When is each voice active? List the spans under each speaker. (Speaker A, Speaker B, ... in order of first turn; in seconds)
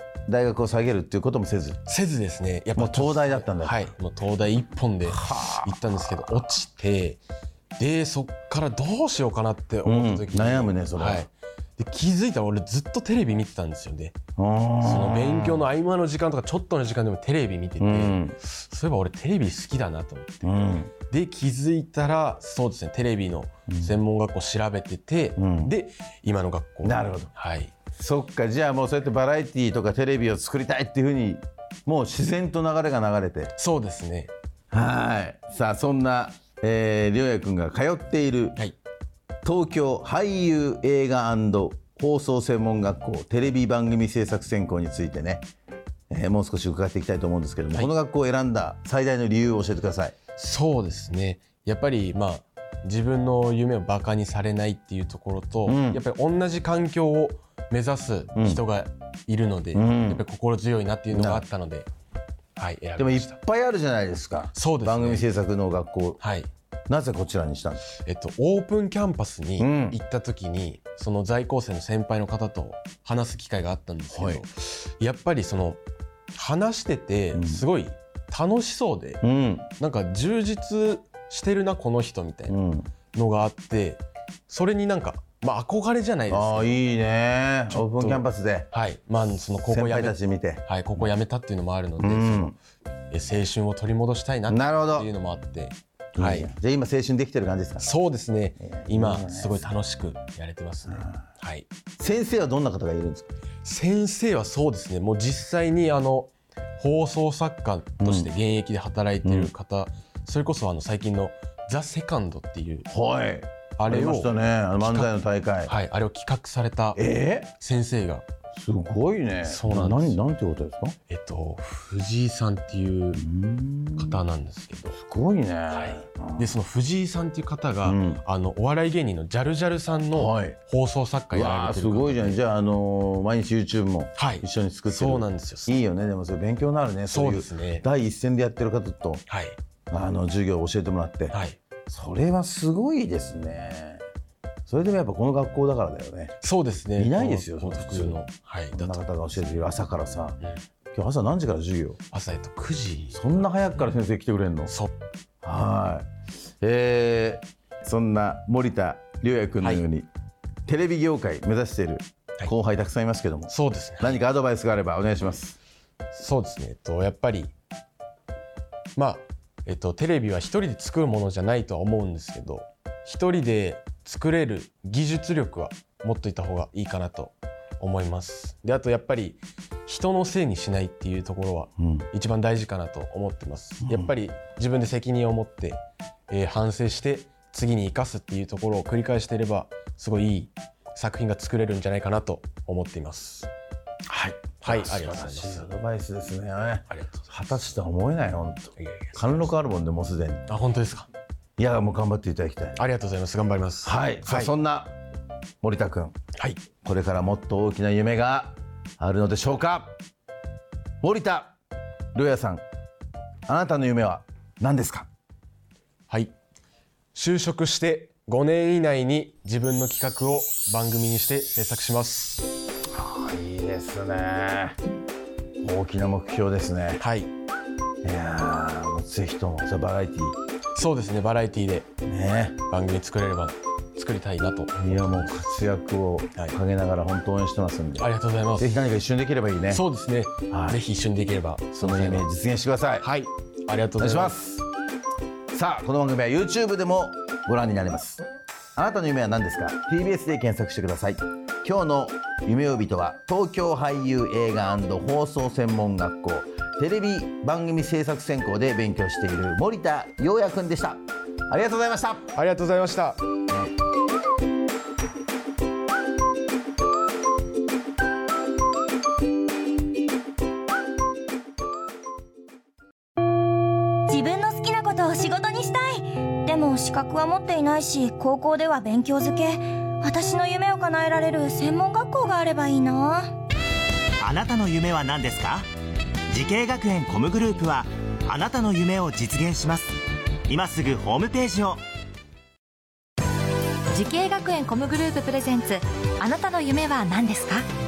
Speaker A: 0.3-1.8, 2.8-3.9, 5.0-6.4, 9.8-11.3, 14.4-15.7, 17.8-18.4, 20.4-20.9, 25.4-25.7, 26.8-27.3, 27.9-33.5, 34.7-38.6, 39.4-45.5, 46.1-50.1, 55.7-56.0, 58.4-58.6, 59.7-60.2, 61.1-61.5, 63.0-66.2, 66.9-67.8, 69.6-70.0, 74.1-74.4, 77.3-77.7, 79.2-79.7, 82.5-82.9, 86.3-88.7, 89.7-91.1, 92.0-92.6, 94.5-95.1, 96.2-97.9, 98.6-99.7, 100.9-101.2, 102.0-103.3, 108.0-108.3, 109.2-109.5, 112.9-115.7, 117.0-117.5, 118.5-121.0, 123.2-124.2, 124.9-126.5, 127.8-128.2, 130.1-130.6, 131.3-139.2, 139.9-144.0, 144.7-146.3, 147.0-148.2, 148.7-150.4, 150.9-152.0, 153.1-154.7, 155.4-156.1, 156.6-160.1, 160.7-165.6, 181.8-182.1, 183.8-184.1, 194.1-200.5, 201.6-202.8, 203.8-204.9, 205.6-206.2, 206.8-209.9, 211.0-211.6, 212.2-212.6, 213.5-215.1, 222.9-224.8, 225.6-227.0, 228.0-230.4, 232.1-232.6, 234.8-239.8, 240.5-240.8, 241.8-243.1, 244.0-244.6, 245.5-248.2, 248.8-262.3
Speaker B: 1.9-7.2, 7.8-14.2, 14.8-27.7, 33.6-34.3, 50.4-61.9, 62.6-63.4, 64.5-65.3, 66.2-66.5, 67.9-75.8, 76.3-79.2, 79.8-82.5, 83.1-86.8, 87.7-92.5, 93.1-96.5, 97.8-101.7, 103.6-112.9, 113.8-115.1, 115.6-118.3, 119.4-120.2, 121.1-123.2, 124.0-125.0, 125.7-132.4, 134.2-135.8, 137.1-137.9, 139.3-139.6, 141.3-141.6, 146.4-149.0, 152.1-153.8, 154.7-155.0, 163.5-164.2, 166.1-167.5, 169.0-193.5, 194.6-195.7, 196.9-197.5, 198.8-199.5, 200.5-201.1, 202.8-204.5, 206.4-206.6, 217.1-222.5, 227.0-227.3, 230.8-231.9, 232.7-235.4, 238.0-238.7, 239.7-242.3, 243.0-244.5, 262.3-263.2
Speaker C: 274.1-283.3
Speaker D: 284.2-285.7, 286.3-289.9, 290.5-291.8
Speaker E: 293.9-297.6